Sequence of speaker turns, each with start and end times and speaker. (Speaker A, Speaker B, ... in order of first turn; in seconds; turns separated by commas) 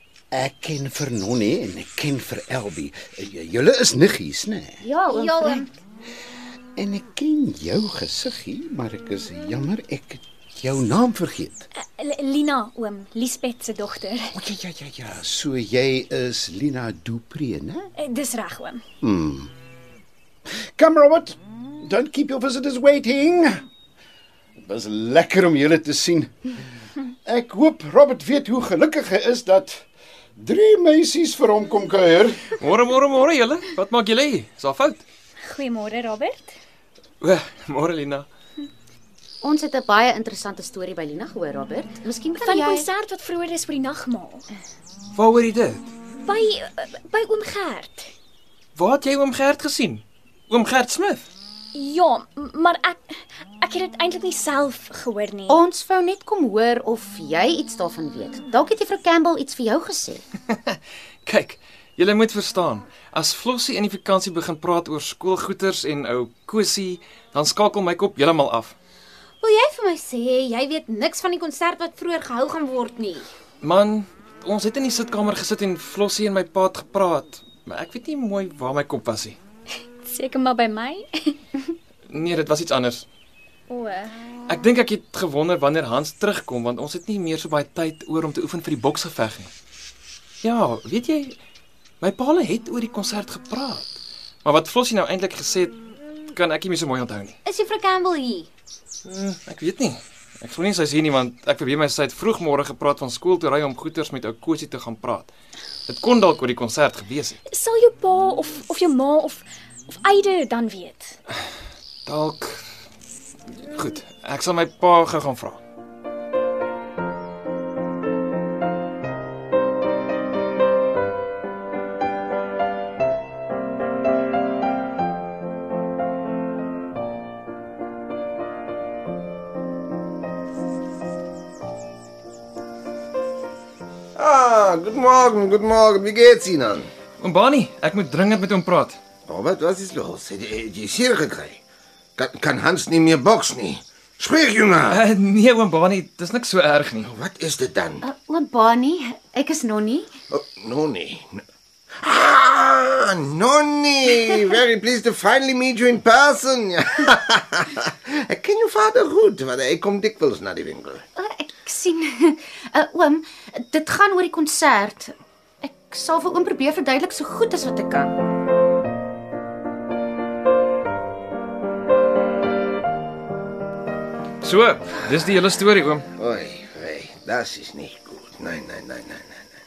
Speaker A: 0.3-4.8, Speaker B: 4.8-5.7, Speaker C: 5.2-5.6, Speaker A: 6.8-11.7, Speaker C: 11.7-14.3, Speaker A: 14.3-17.9, Speaker C: 17.9-18.8, Speaker A: 19.0-19.5, Speaker A: 20.8-23.6, Speaker A: 24.6-26.5, Speaker A: 27.2-29.8, Speaker A: 30.4-32.4, Speaker D: 32.6-35.0, Speaker C: 35.4-36.5, Speaker D: 37.2-38.3, Speaker B: 39.4-42.9, Speaker C: 42.4-44.5, Speaker D: 45.1-45.9, Speaker C: 46.2-48.1, Speaker D: 48.8-51.2, Speaker C: 51.7-55.6, Speaker B: 55.5-60.2, Speaker D: 61.2-68.7, Speaker E: 69.4-73.3, Speaker D: 73.6-79.4, Speaker C: 80.0-81.4, Speaker D: 82.1-83.0, Speaker C: 83.7-84.1, Speaker D: 84.5-89.5, Speaker D: 90.4-91.3, Speaker D: 92.0-95.8, Speaker D: 96.3-97.3, Speaker E: 97.4-98.5, Speaker D: 99.0-105.3, Speaker D: 105.9-107.4, Speaker C: 107.5-111.2, Speaker D: 112.0-112.6, Speaker D: 113.7-115.6, Speaker F: 134.2-136.9, Speaker D: 137.2-139.0, Speaker F: 139.3-141.6, Speaker F: 142.2-145.0, Speaker D: 144.9-147.1, Speaker F: 147.1-148.0, Speaker B: 148.0-150.1, Speaker F: 150.3-151.4, Speaker F: 152.0-161.0, Speaker B: 161.2-168.2, Speaker D: 174.4-176.0, Speaker F: 176.1-179.4